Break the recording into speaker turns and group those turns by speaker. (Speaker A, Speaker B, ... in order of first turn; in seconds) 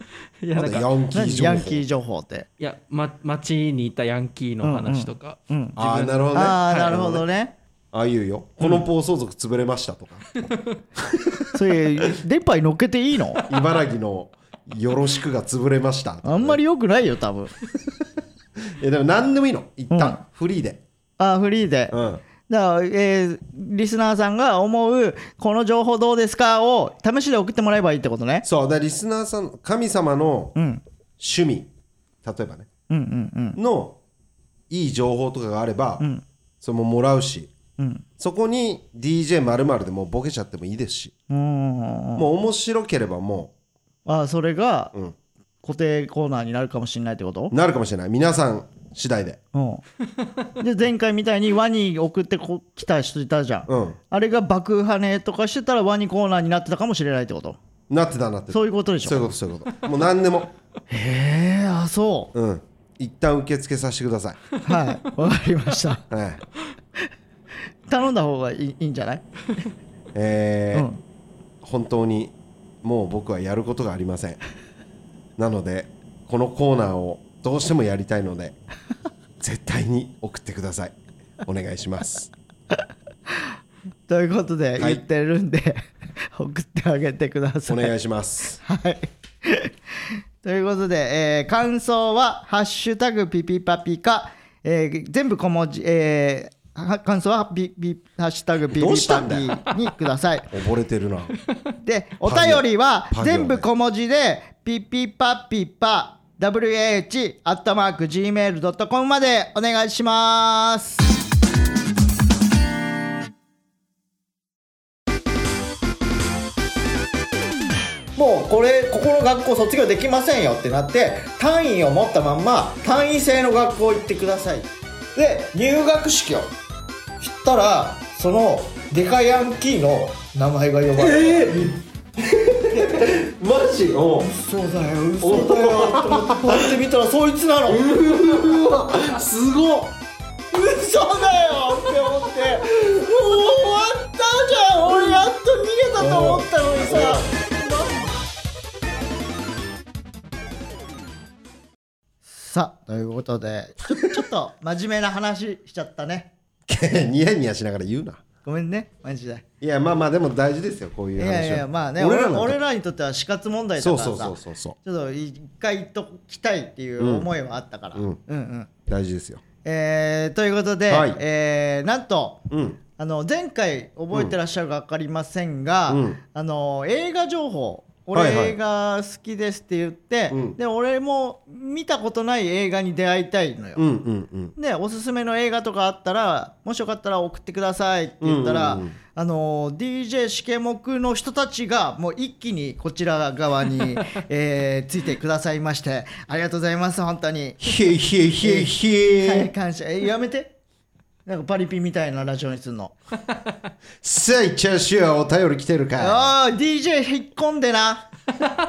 Speaker A: 0.4-0.8, 2.6-7.0, 10.4-10.7
Speaker B: 0.5-1.9, 5.8-7.2, 7.9-11.6, 13.4-16.6, 18.7-20.8, 21.9-22.2, 28.4-30.6, 31.2-31.7, 32.2-32.7, 33.6-34.0, 34.7-36.0, 36.6-37.5, 38.2-41.1, 42.2-43.5, 47.5-49.4, 53.7-54.0, 57.9-60.5, 62.3-64.4, 66.1-66.4, 70.1-70.9, 71.6-74.4, 75.4-78.6, 79.4-82.3, 84.8-85.0, 87.7-88.6, 98.7-99.7, 100.5-101.3, 102.2-103.7, 131.0-134.3, 135.2-136.7, 137.7-139.9, 142.8-143.1, 146.0-147.3, 156.7-158.2, 159.6-162.6, 163.8-164.8, 167.0-167.3, 167.9-168.2, 168.9-169.4, 170.9-171.2, 172.5-172.8, 175.9-176.2, 178.1-178.6, 180.3-180.6, 183.8-184.5, 188.2-189.0, 197.6-199.5, 204.0-206.3
Speaker C: 0.6-2.5, 4.6-5.8, 6.3-7.5, 11.5-13.4, 16.2-17.5, 19.9-20.2, 21.2-28.5, 30.6-30.8, 32.9-33.6, 37.8-38.0, 41.3-42.3, 44.1-44.9, 45.6-47.5, 49.5-49.8, 50.6-57.6, 58.5-59.3, 60.9-62.3, 64.6-66.0, 67.9-69.2, 70.7-71.0, 84.1-87.9, 88.6-100.5, 101.8-111.0, 118.2-126.5, 127.2-131.6, 132.7-133.1, 134.2-137.9, 140.5-148.0, 152.2-156.3, 158.4-159.4, 161.2-168.7, 169.6-172.5, 173.0-183.8, 184.6-197.7, 198.4-200.6, 201.3-202.9, 206.0-208.1